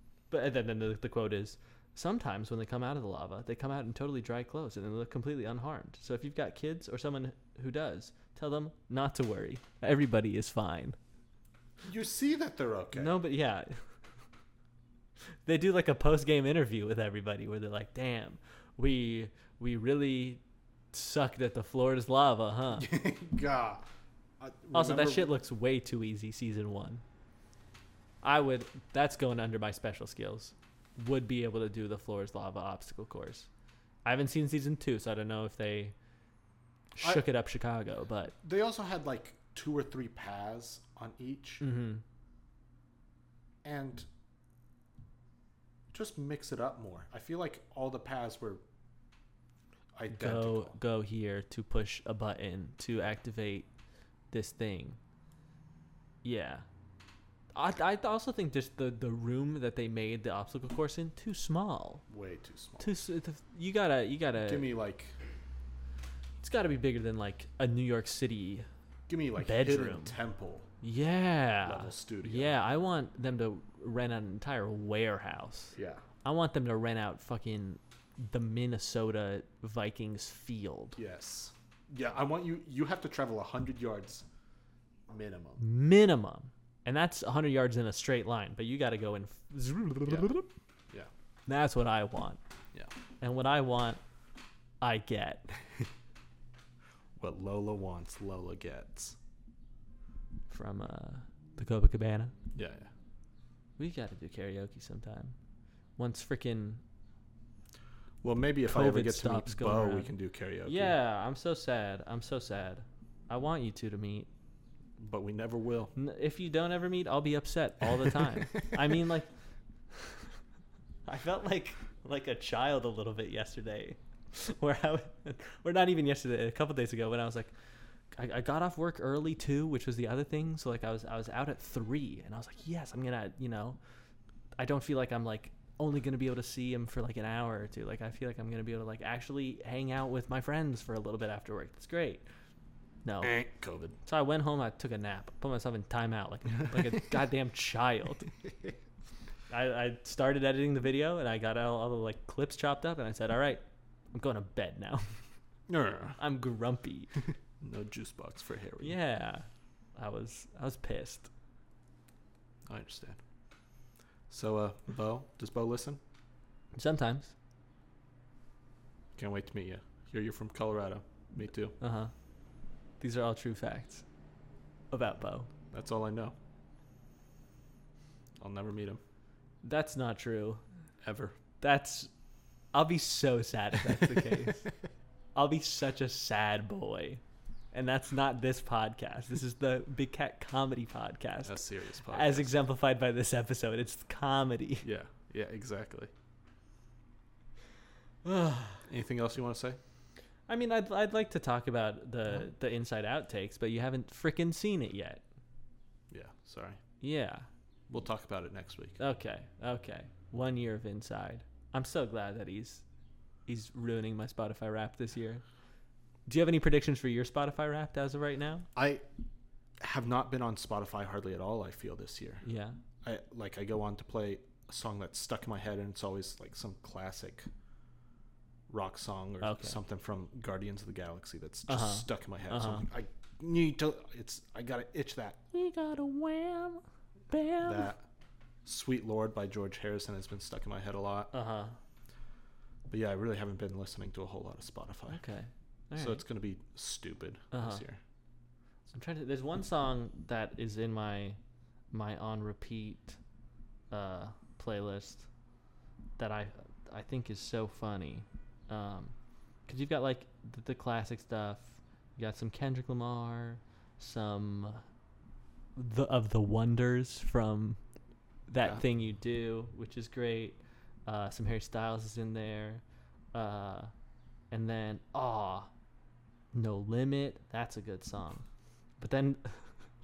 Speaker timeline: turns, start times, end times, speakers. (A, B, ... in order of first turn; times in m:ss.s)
0:00.3-0:11.0 A
0:11.8-0:13.2 B
0:12.9-0:13.9 A
0:15.4-0:20.4 A
0:20.9-0:22.9 A
0:22.8-0:23.8 B
0:24.4-0:25.3 B
0:24.7-0:27.0 A
0:28.2-0:33.5 A
0:34.0-0:36.0 A
0:37.0-0:38.4 A
0:38.4-0:41.6 B
0:41.6-0:42.0 A
0:43.6-0:44.1 B
0:45.9-0:48.6 B
0:50.0-0:50.8 B
0:50.1-0:53.7 A
0:54.3-0:55.0 A
0:56.2-0:56.7 A
0:57.6-1:02.0 A
1:02.1-1:02.9 B
1:02.8-1:04.7 A
1:04.5-1:05.2 B
1:06.4-1:08.7 A
1:09.1-1:10.7 B
1:09.4-1:10.2 A
1:10.8-1:21.0 A
1:11.6-1:12.6 B
1:15.8-1:16.0 B
1:21.0-1:24.2 B
1:25.1-1:25.6 B
1:25.6-1:30.5 A
1:30.1-1:30.3 B
1:31.5-1:32.4 A
1:33.2-1:34.0 A
1:34.8-1:35.5 A
1:37.2-1:39.2 B
1:40.5-1:42.3 A
1:42.5-1:42.9 B
1:43.8-1:45.4 A
1:46.0-1:46.8 A
1:48.2-1:51.0 B
1:48.7-1:50.1 A
1:50.7-1:54.3 A
1:55.0-1:55.9 B
1:56.0-1:59.3 A
1:58.2-1:58.7 B
1:59.9-2:00.4 A
2:01.0-2:07.5 A
2:08.1-2:13.8 A
2:14.6-2:22.2 A
2:23.0-2:23.3 A
2:23.2-2:24.0 B
2:24.0-2:28.3 A
2:29.5-2:35.2 A
2:35.7-2:36.2 B
2:36.2-2:37.1 A
2:37.3-2:39.0 B
2:38.8-2:41.3 A
2:42.7-2:43.2 B
2:44.3-2:46.0 B
2:46.7-2:47.4 A
2:49.2-2:51.7 B
2:51.8-2:52.1 A
2:53.0-2:54.0 A
2:54.9-2:55.5 A
2:55.7-2:56.4 B
2:58.4-2:59.0 B
2:59.6-3:00.6 A
3:01.0-3:01.4 B
3:01.6-3:02.1 A
3:02.7-3:04.7 A
3:05.4-3:07.2 A
3:07.7-3:14.9 A
3:11.4-3:12.5 B
3:14.8-3:16.1 B
3:18.2-3:18.9 A
3:18.9-3:19.8 B
3:20.5-3:25.2 A
3:26.1-3:26.8 B
3:27.0-3:27.5 A
3:27.9-3:29.0 B
3:29.0-3:32.8 A
3:33.5-3:35.4 A
3:36.3-3:38.7 A
3:38.8-3:39.0 B
3:39.8-3:42.4 B
3:42.4-3:42.8 A
3:43.0-3:47.5 B
3:48.7-3:55.4 B
3:49.4-3:49.8 A
3:51.7-3:52.9 A
3:55.5-3:57.9 A
3:57.6-3:58.0 B
3:58.6-4:01.3 B
4:01.3-4:01.8 A
4:02.9-4:05.2 B
4:05.1-4:06.2 A
4:06.0-4:08.0 B
4:07.5-4:07.8 A
4:08.9-4:11.4 A
4:11.9-4:13.2 A
4:13.9-4:15.3 A
4:16.2-4:19.2 A
4:19.7-4:24.8 A
4:25.8-4:27.8 A
4:28.5-4:32.8 A
4:33.3-4:33.9 A
4:34.5-4:35.7 A
4:36.5-4:38.4 A
4:39.0-4:39.7 A